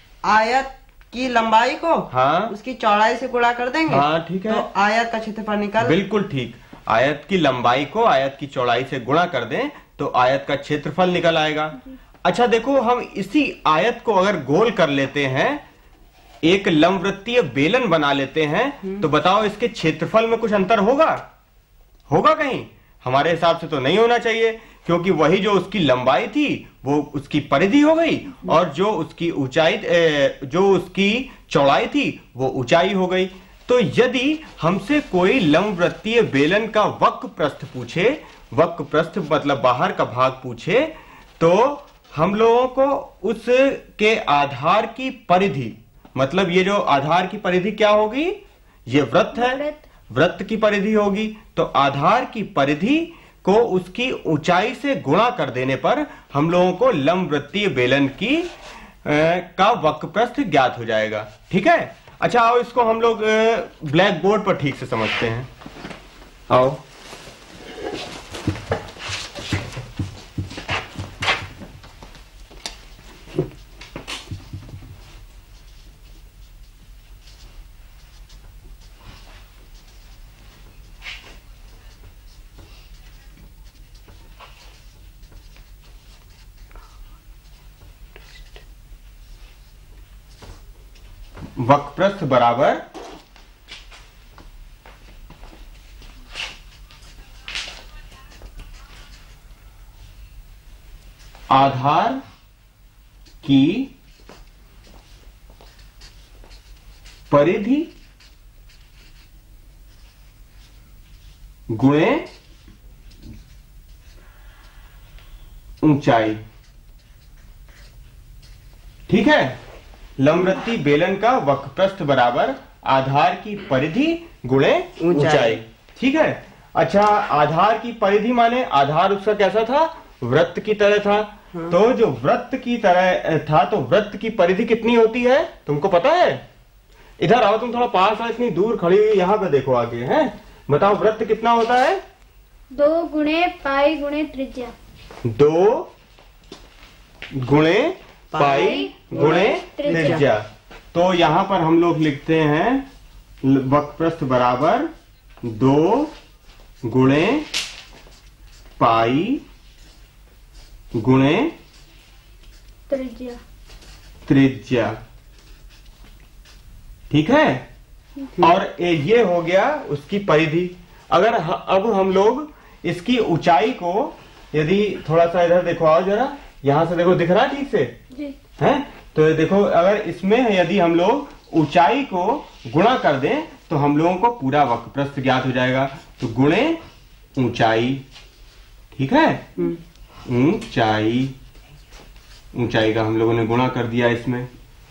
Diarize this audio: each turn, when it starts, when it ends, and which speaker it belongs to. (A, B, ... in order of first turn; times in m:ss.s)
0:00.2-0:06.0 A
0:02.1-0:02.5 B
0:03.9-0:04.7 B
0:05.8-0:15.6 B
0:16.4-0:21.2 B
0:22.1-0:58.5 B
0:49.3-0:49.8 C
0:59.0-1:05.5 B
1:06.5-1:06.8 B
1:31.6-1:32.8 B
1:41.5-1:42.2 B
1:43.4-1:43.9 B
1:47.3-1:47.9 B
1:51.7-1:52.2 B
1:55.8-1:56.4 B
1:59.1-1:59.6 B
2:00.2-2:16.4 B
2:05.0-2:05.6 A
2:17.2-2:22.0 B
2:22.7-2:24.7 C
2:25.2-2:25.9 B
2:27.3-2:32.9 B
2:28.3-2:30.2 A
2:28.4-2:30.2 C
2:33.4-2:34.9 B
2:35.4-2:36.1 B
2:36.8-2:37.5 B
2:38.8-2:39.4 B
2:40.9-2:41.5 B
2:42.9-2:43.4 C
2:44.2-2:45.0 B
2:47.1-2:47.7 B
2:48.4-2:58.0 B
2:58.6-3:06.8 B
3:07.4-3:08.0 B
3:08.9-3:09.4 B
3:10.2-3:11.3 B
3:12.5-3:14.5 B